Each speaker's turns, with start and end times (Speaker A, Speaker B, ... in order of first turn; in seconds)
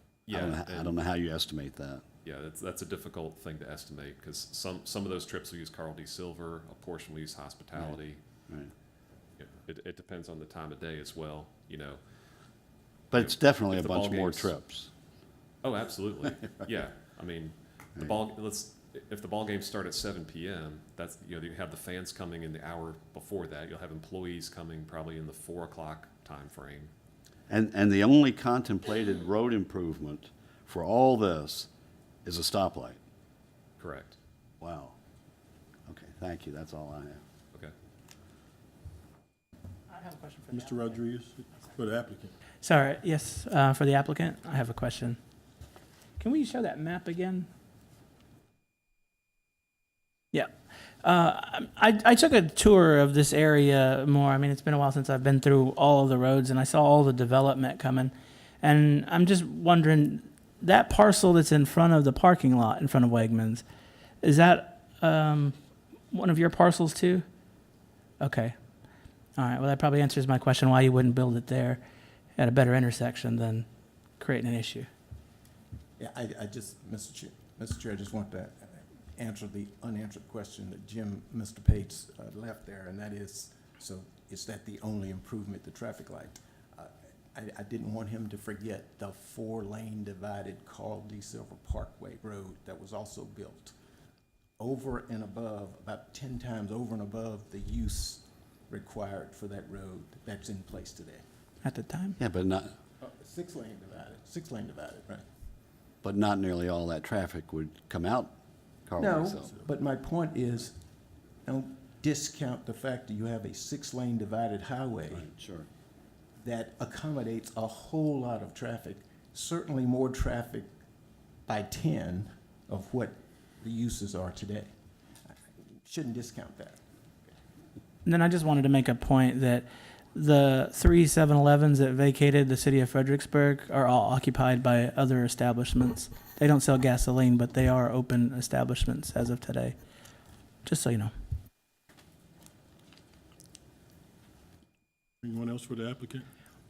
Speaker A: 0.3-1.0, 2.2-8.2, 9.4-12.0, 13.1-14.5, 15.6-26.9, 33.8-34.2
Speaker B: 0.3-2.0, 13.1-14.9, 27.5-31.7, 32.2-33.0, 34.6-35.0, 35.9-37.2, 102.2-102.7, 106.0-108.3, 108.9-109.5, 115.1-115.7
Speaker C: 39.9-41.0, 42.6-45.2, 46.2-47.5, 50.3-63.6, 64.2-65.5, 66.1-67.2, 68.2-68.5, 69.3-71.8, 72.4-73.7, 74.2-74.9, 101.6-102.2, 128.0-139.8, 140.6-141.1
Speaker D: 40.5-42.4, 145.2-146.3
Speaker E: 76.0-93.7, 94.6-101.2, 103.0-105.2, 109.0-110.8, 111.5-115.3, 116.4-120.7, 121.5-124.7, 125.8-126.8